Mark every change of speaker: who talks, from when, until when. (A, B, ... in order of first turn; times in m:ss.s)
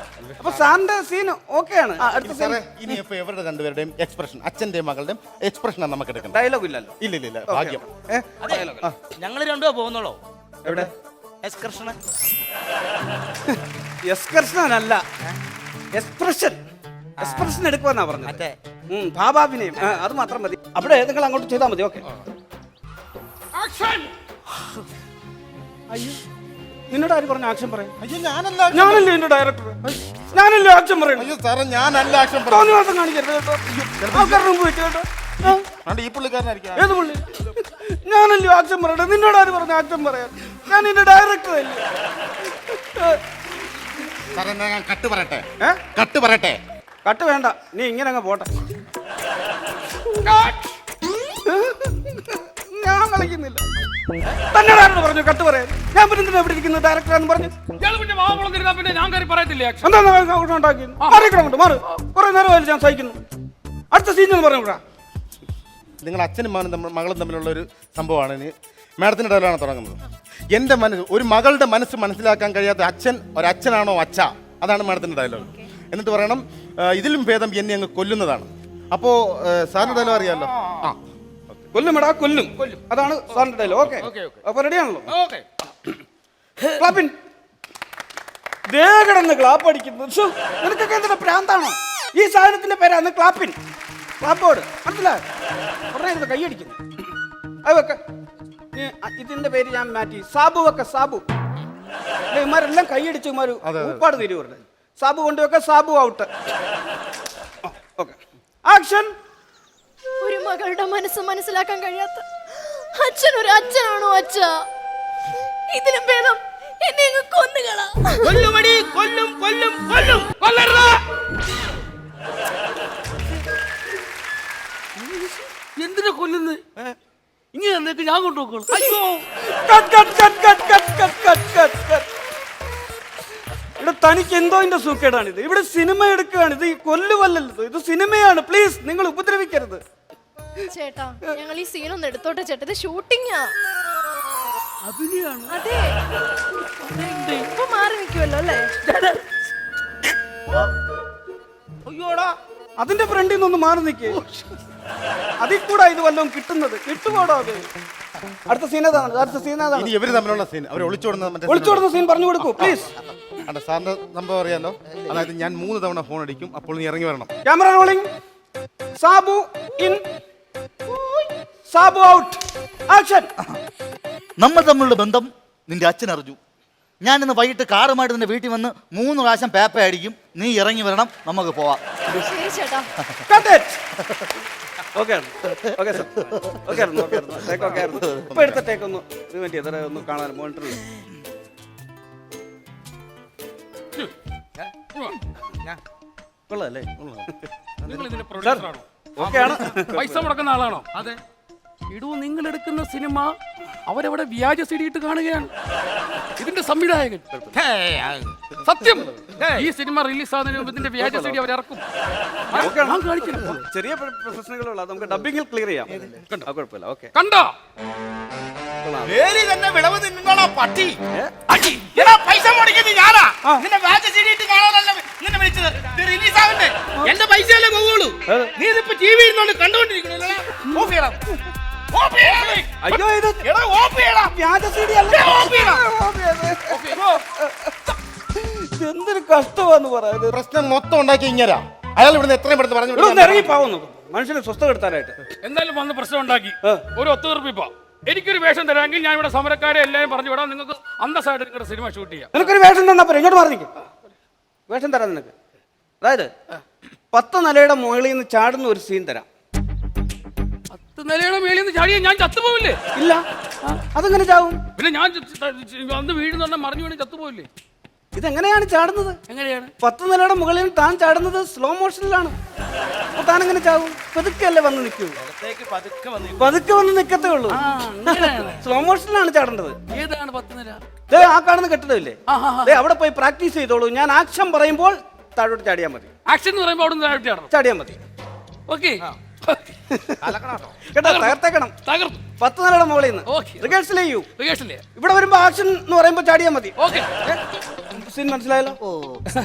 0:00.2-0:00.6 A
0:00.4-0:03.0 B
0:02.1-0:06.4 C
0:06.3-0:08.9 B
0:07.0-0:07.9 C
0:08.4-0:10.9 A
0:08.8-0:09.1 C
0:10.6-0:10.9 B
0:11.4-0:12.0 A
0:14.1-0:15.0 B
0:15.9-0:16.6 B
0:17.2-0:22.0 B
0:17.2-0:17.5 A
0:18.2-0:18.6 A
0:23.5-0:24.1 D
0:25.9-0:26.2 B
0:26.9-0:27.9 B
0:28.0-0:29.1 C
0:28.7-0:29.8 B
0:29.8-0:30.1 C
0:30.3-0:31.3 B
0:31.2-0:32.8 C
0:32.5-0:35.6 B
0:34.0-0:34.5 C
0:35.4-0:36.9 C
0:36.8-0:41.8 B
0:42.5-0:43.2 B
0:44.3-0:46.6 C
0:47.0-0:48.5 B
0:50.2-0:50.8 D
0:51.4-0:53.6 B
0:54.2-0:57.5 B
0:57.8-0:59.9 D
0:59.8-1:03.2 B
1:01.0-1:01.3 D
1:03.9-1:04.8 B
1:06.0-1:10.0 C
1:10.5-1:21.0 C
1:15.4-1:15.7 E
1:19.8-1:20.9 A
1:21.7-1:25.1 B
1:23.3-1:24.4 A
1:25.1-1:25.4 A
1:26.8-1:27.2 B
1:28.7-1:33.6 B
1:34.2-1:35.2 B
1:35.9-1:36.8 B
1:37.6-1:38.0 B
1:38.8-1:41.2 B
1:42.3-1:46.3 B
1:43.6-1:44.1 C
1:47.7-1:49.1 B
1:50.2-1:54.6 E
1:55.7-1:58.4 E
1:58.2-2:00.3 A
2:00.4-2:01.0 D
2:05.8-2:06.6 D
2:07.5-2:09.2 D
2:08.7-2:12.1 B
2:13.8-2:19.8 B
2:20.7-2:23.5 E
2:24.8-2:25.6 D
2:25.5-2:26.0 E
2:26.8-2:27.5 D
2:27.5-2:28.9 E
2:28.9-2:29.2 D
2:31.9-2:32.4 A
2:32.8-2:34.2 B
2:34.1-2:34.5 D
2:35.4-2:37.7 B
2:38.5-2:39.9 B
2:39.8-2:41.9 C
2:41.5-2:42.9 B
2:42.4-2:42.8 C
2:43.4-2:47.3 C
2:47.4-2:48.1 B
2:49.0-2:50.0 B
2:50.9-2:51.3 E
2:51.7-2:53.3 B
2:54.4-2:56.4 F
2:57.0-3:01.8 F
3:02.1-3:02.9 E
3:03.3-3:03.8 B
3:04.9-3:10.8 B
3:08.2-3:08.6 C
3:16.5-3:17.4 B
3:17.0-3:17.3 C
3:17.9-3:18.8 D
3:18.4-3:18.6 B
3:19.2-3:20.3 B
3:19.2-3:19.9 A
3:20.0-3:20.9 D
3:21.9-3:25.5 D
3:26.4-3:27.3 D
3:27.5-3:28.4 A
3:28.6-3:31.8 D
3:29.4-3:29.7 A
3:31.0-3:31.4 B
3:32.5-3:33.6 D
3:32.5-3:37.1 B
3:37.1-3:37.5 D
3:38.8-3:39.2 B
3:39.1-3:41.0 A
3:41.5-3:42.1 D
3:41.9-3:51.2 A
3:48.3-3:48.6 B
3:51.9-3:54.3 A
3:52.8-3:53.4 B
3:54.2-3:56.8 B
3:55.1-3:55.8 A
3:56.7-3:57.2 D
3:57.4-4:00.4 B
4:00.3-4:03.5 C
4:02.9-4:05.2 B
4:05.4-4:12.3 D
4:12.3-4:13.7 B
4:14.7-4:15.3 B
4:16.0-4:16.3 B
4:17.1-4:19.2 B
4:20.7-4:22.8 D
4:23.0-4:23.2 B
4:23.9-4:24.6 B
4:24.8-4:27.5 D
4:28.1-4:29.2 B
4:29.3-4:29.7 D
4:29.8-4:32.4 B
4:33.1-4:35.2 B
4:35.2-4:36.6 A
4:36.4-4:39.8 B
4:37.5-4:38.6 D
4:39.9-4:40.8 D
4:41.1-4:46.1 B
4:42.3-4:42.8 D
4:46.3-4:47.5 D
4:47.5-4:48.0 B
4:48.7-4:49.6 D
4:49.9-4:50.2 B
4:50.2-4:50.8 A
4:50.9-4:51.7 B
4:51.0-4:52.2 D
4:52.4-4:54.3 B
4:53.3-4:53.8 D
4:54.4-4:54.8 D
4:55.0-4:58.8 B
4:56.8-4:57.1 D
4:58.8-4:59.2 F